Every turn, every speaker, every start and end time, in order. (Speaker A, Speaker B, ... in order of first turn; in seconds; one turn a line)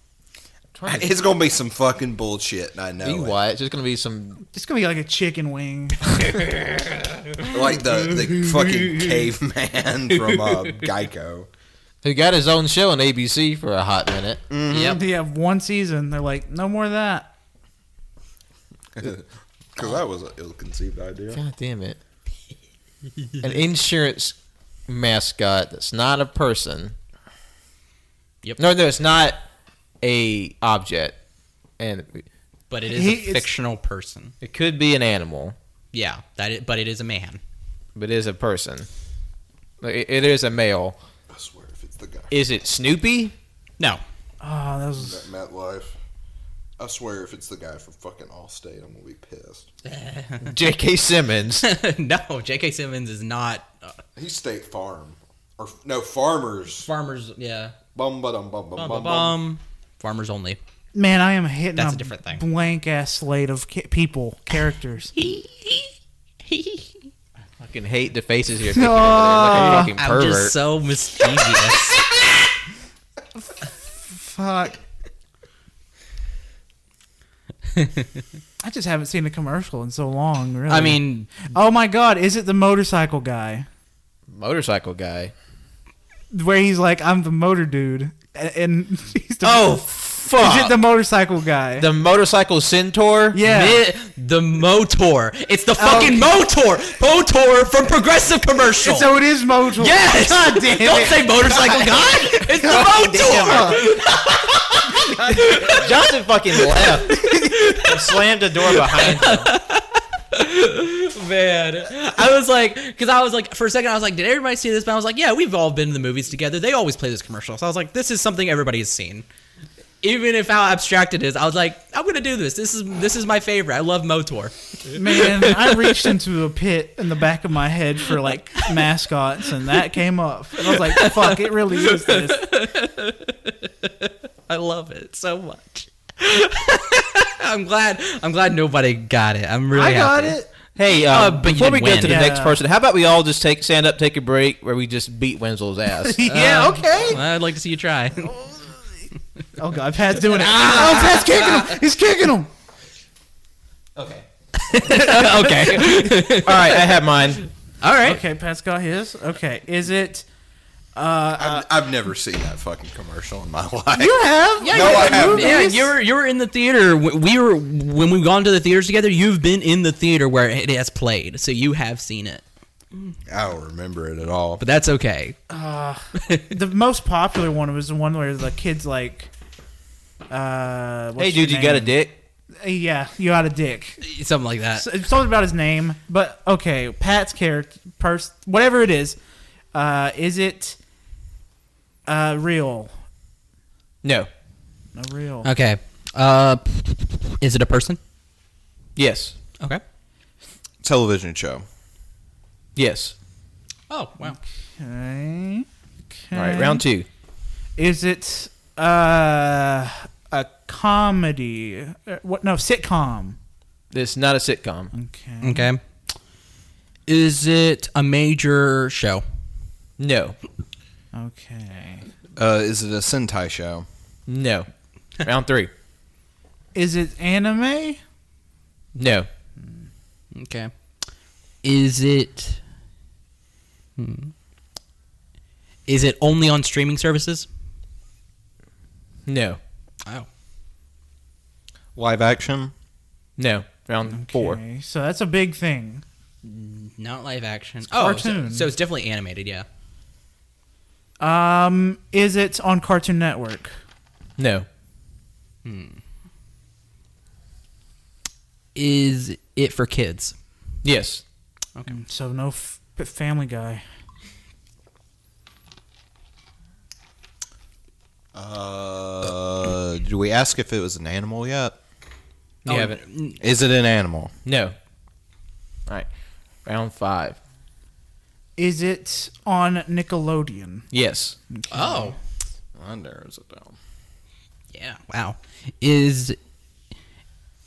Speaker A: 0.8-3.3
Speaker B: 3.0-4.4
Speaker C: 4.4-6.2
Speaker D: 6.6-7.4
Speaker A: 7.4-11.5
Speaker D: 10.2-10.7
Speaker B: 12.0-14.4
Speaker A: 14.5-15.0
Speaker D: 14.7-15.0
Speaker C: 14.8-17.3
Speaker A: 18.9-21.4
Speaker B: 21.3-22.0
Speaker B: 23.4-24.4
Speaker B: 24.9-26.9
Speaker B: 28.6-29.4
Speaker B: 30.0-31.1
Speaker B: 31.8-32.2
Speaker D: 32.7-34.3
Speaker C: 32.9-33.5
Speaker B: 34.4-35.5
Speaker D: 35.9-37.4
Speaker B: 38.0-38.9
Speaker B: 39.8-41.0
Speaker A: 41.3-42.3
Speaker B: 42.3-43.3
Speaker C: 44.4-45.3
Speaker A: 45.0-45.9
Speaker A: 46.8-49.7
Speaker D: 49.8-50.5
Speaker B: 50.4-51.6
Speaker D: 51.6-54.0
Speaker A: 54.1-56.9
Speaker D: 56.8-57.8
Speaker A: 57.9-59.4
Speaker D: 58.7-60.6
Speaker C: 60.9-65.1
Speaker D: 61.8-62.4
Speaker D: 65.2-65.9
Speaker D: 66.5-66.8
Speaker B: 67.6-70.5
Speaker C: 68.7-69.9
Speaker D: 69.5-72.0
Speaker C: 74.0-74.8
Speaker D: 77.7-78.2
Speaker C: 78.6-83.7
Speaker D: 80.7-81.3
Speaker B: 84.3-85.3
Speaker C: 86.3-91.9
Speaker B: 89.4-90.8
Speaker B: 91.8-93.4
Speaker C: 93.3-93.8
Speaker D: 93.4-99.1
Speaker C: 95.8-96.3
Speaker C: 98.8-101.5
Speaker D: 99.8-119.2
Speaker C: 102.5-103.9
Speaker B: 102.6-103.8
Speaker C: 105.0-105.5
Speaker B: 105.7-107.2
Speaker C: 107.1-107.6
Speaker B: 107.8-109.5
Speaker D: 120.0-126.1
Speaker C: 124.9-132.5
Speaker D: 130.6-140.3
Speaker C: 139.7-140.5
Speaker B: 140.8-146.2
Speaker D: 141.0-142.3
Speaker C: 142.0-142.6
Speaker C: 146.0-147.2
Speaker D: 146.3-148.4
Speaker C: 149.6-152.5
Speaker D: 150.2-151.8
Speaker B: 153.9-157.4
Speaker D: 154.7-157.1
Speaker D: 157.8-158.2
Speaker C: 158.0-160.2
Speaker C: 160.9-161.7
Speaker A: 161.4-165.7
Speaker C: 164.0-165.9
Speaker D: 164.6-172.4
Speaker A: 173.3-174.6
Speaker D: 174.6-175.4
Speaker C: 175.5-179.3
Speaker D: 176.2-176.5
Speaker C: 180.3-181.9
Speaker B: 181.2-182.1
Speaker C: 182.6-184.0
Speaker D: 184.0-184.8
Speaker C: 184.7-189.2
Speaker C: 189.7-190.8
Speaker C: 192.1-192.9
Speaker B: 194.0-194.3
Speaker C: 194.9-195.5
Speaker D: 195.4-198.0
Speaker B: 198.9-199.3
Speaker A: 200.8-201.6
Speaker B: 202.8-203.1
Speaker D: 203.9-204.4
Speaker C: 204.2-206.8
Speaker B: 206.3-207.1
Speaker C: 207.8-213.4
Speaker B: 213.9-214.9
Speaker C: 214.9-215.7
Speaker D: 215.4-215.8
Speaker D: 217.1-219.2
Speaker B: 220.0-220.4
Speaker C: 221.1-222.1
Speaker A: 222.3-223.8
Speaker B: 224.3-224.7
Speaker B: 225.2-225.7
Speaker C: 226.7-228.0
Speaker B: 228.9-229.3
Speaker D: 230.3-230.7
Speaker D: 231.6-232.6
Speaker D: 234.0-234.3
Speaker D: 235.9-237.4
Speaker B: 239.2-239.6
Speaker A: 241.9-242.7
Speaker B: 243.4-244.6
Speaker C: 244.1-246.0
Speaker D: 246.4-249.7
Speaker C: 247.9-248.7
Speaker C: 251.2-253.7
Speaker B: 254.4-254.7
Speaker D: 255.6-256.0
Speaker D: 258.7-260.3
Speaker B: 260.8-261.2
Speaker C: 261.9-263.8
Speaker A: 268.3-271.8
Speaker B: 272.6-273.0
Speaker D: 272.7-273.4
Speaker A: 273.4-274.3
Speaker B: 274.4-274.7
Speaker B: 276.6-277.4
Speaker C: 278.6-280.9
Speaker B: 280.9-281.4
Speaker C: 281.5-282.2
Speaker D: 281.7-282.1
Speaker A: 282.8-283.8
Speaker D: 284.7-286.4